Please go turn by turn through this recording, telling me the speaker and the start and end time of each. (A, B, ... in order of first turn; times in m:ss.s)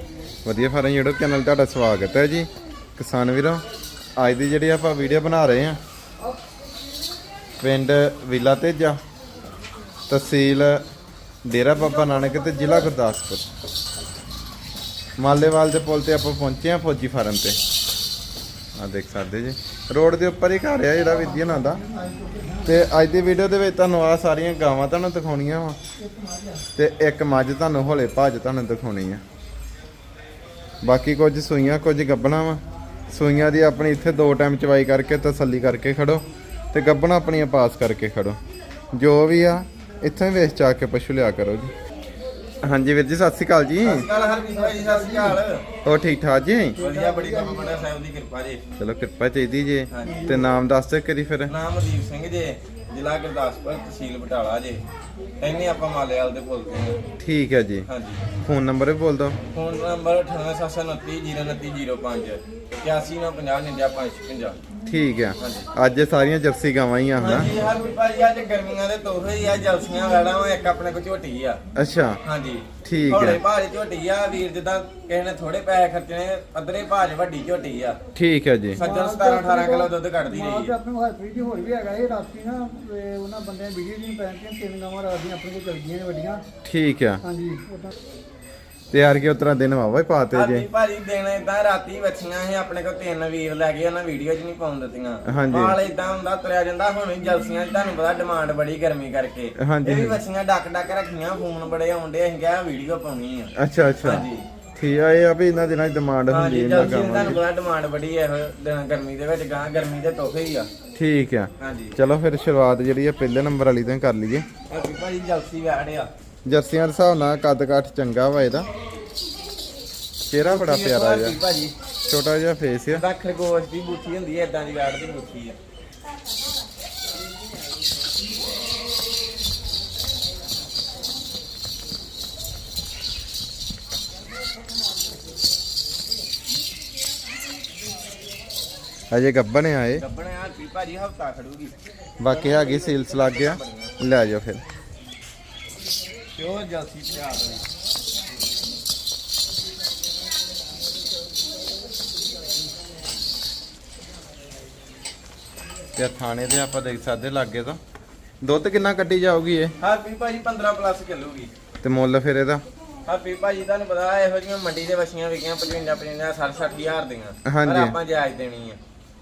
0:00.4-0:03.6 A
0:04.2-0:05.8 A
0:07.6-0:09.0 A
0:10.1-0:10.8 A
0:11.4-0:13.4 A
0:12.0-0:12.8 B
0:15.2-0:17.6 A
0:18.8-0:21.8 A
0:21.0-0:22.9 B
0:22.6-0:25.8 A
0:26.0-0:26.6 B
0:26.8-0:29.2 A
0:30.8-0:38.4 A
0:38.9-0:41.7 A
0:42.6-0:44.1 A
0:43.8-0:45.7 C
0:44.1-0:45.4 B
0:45.8-0:46.8 A
0:46.7-0:47.8 B
0:46.8-0:48.6 C
0:48.8-0:51.5 A
0:49.9-0:50.3 C
0:50.0-0:50.6 B
0:51.5-0:54.8 C
0:55.4-0:57.0 C
0:57.2-0:57.9 A
0:57.8-0:58.3 C
0:58.4-0:59.4 A
0:59.5-1:04.6 C
1:04.8-1:07.5 A
1:05.4-1:05.7 C
1:07.2-1:11.6 C
1:11.7-1:12.2 A
1:12.2-1:18.0 C
1:12.8-1:13.4 A
1:18.2-1:18.8 A
1:18.8-1:26.4 B
1:18.8-1:20.7 C
1:26.6-1:27.2 A
1:27.2-1:27.9 B
1:28.9-1:30.7 A
1:30.3-1:43.5 C
1:35.3-1:35.8 A
1:39.6-1:40.2 A
1:43.6-1:44.2 A
1:44.0-1:44.4 C
1:44.8-1:47.4 A
1:46.3-1:50.7 C
1:51.0-1:54.4 A
1:51.6-1:51.9 C
1:54.7-1:56.1 C
1:56.4-1:58.7 A
2:00.3-2:01.4 A
2:00.4-2:01.7 C
2:02.1-2:03.0 A
2:03.0-2:05.6 C
2:19.1-2:20.0 A
2:20.0-2:23.9 C
2:22.2-2:24.6 A
2:26.4-2:27.6 C
2:36.0-2:37.8 A
2:38.4-2:39.7 A
2:39.8-2:41.5 C
2:41.8-2:42.6 A
2:43.0-2:48.8 C
2:47.4-2:48.0 A